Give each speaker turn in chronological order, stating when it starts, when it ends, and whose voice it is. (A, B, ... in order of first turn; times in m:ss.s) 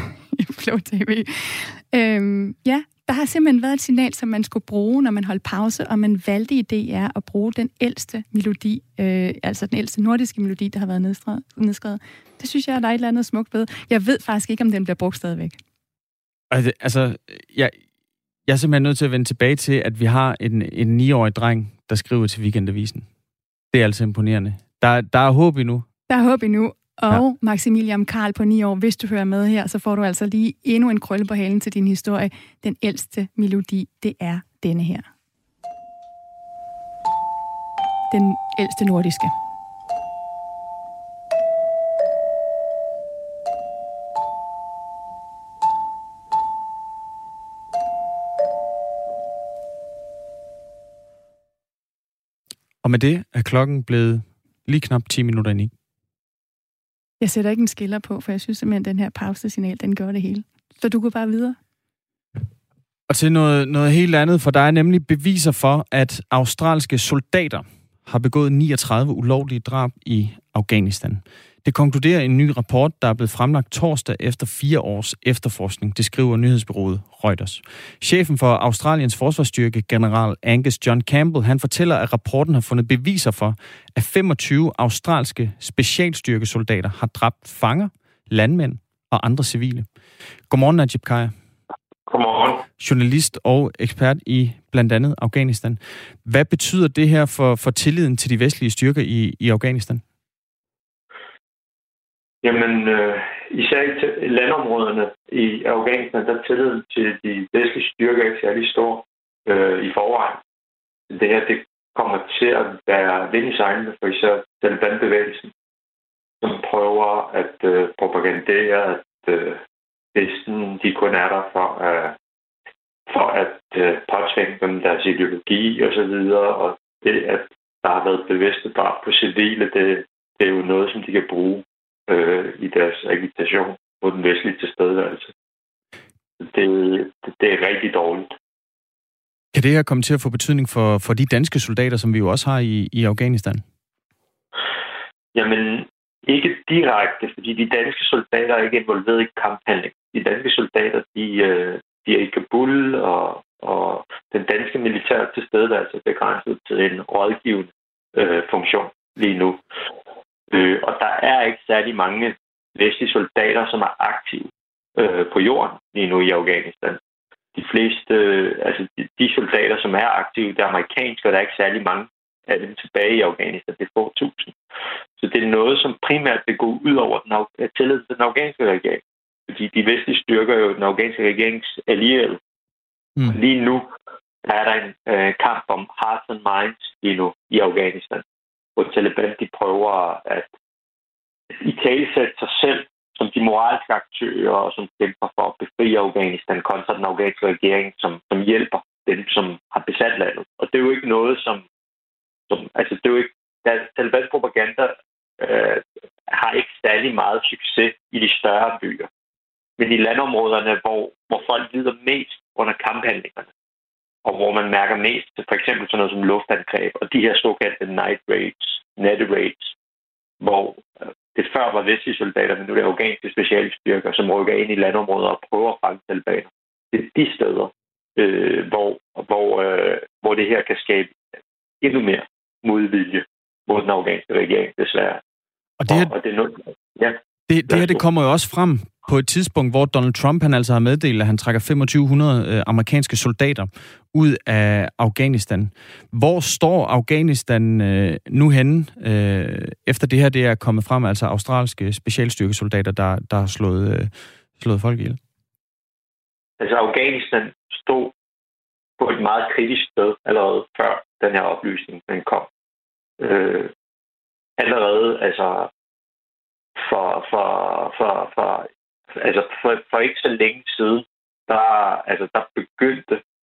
0:00.3-0:15.6 A
0:16.5-0:17.8 B
0:18.5-0:23.1 B
0:23.7-0:25.9 B
0:26.1-0:35.1 A
0:38.1-0:39.3 A
0:52.8-0:55.7 B
0:57.2-1:01.6 A
1:03.1-1:29.9 B
1:30.5-1:31.3 B
1:32.1-1:32.6 C
1:32.8-1:40.0 B
1:42.4-1:50.4 C
1:51.1-1:55.5 C
1:56.4-1:59.6 C
2:00.1-2:02.2 C
2:03.1-2:15.3 C
2:16.4-2:18.3 C
2:19.5-2:23.6 B
2:25.4-2:39.6 C
2:40.5-2:47.0 C
2:47.6-2:54.6 C
2:55.2-3:02.4 C
3:03.3-3:03.9 C
3:04.4-3:08.2 C
3:08.8-3:10.5 C
3:11.5-3:21.6 C
3:22.5-3:29.1 C
3:29.8-3:33.5 C
3:34.2-3:39.7 C
3:40.4-3:51.2 C
3:51.8-3:55.2 C
3:55.8-3:56.1 B
3:55.9-3:58.0 C
3:57.5-4:15.2 B
4:16.6-4:18.1 C
4:19.0-4:22.5 C
4:23.2-4:23.7 C
4:24.6-4:25.7 C
4:26.8-4:33.2 C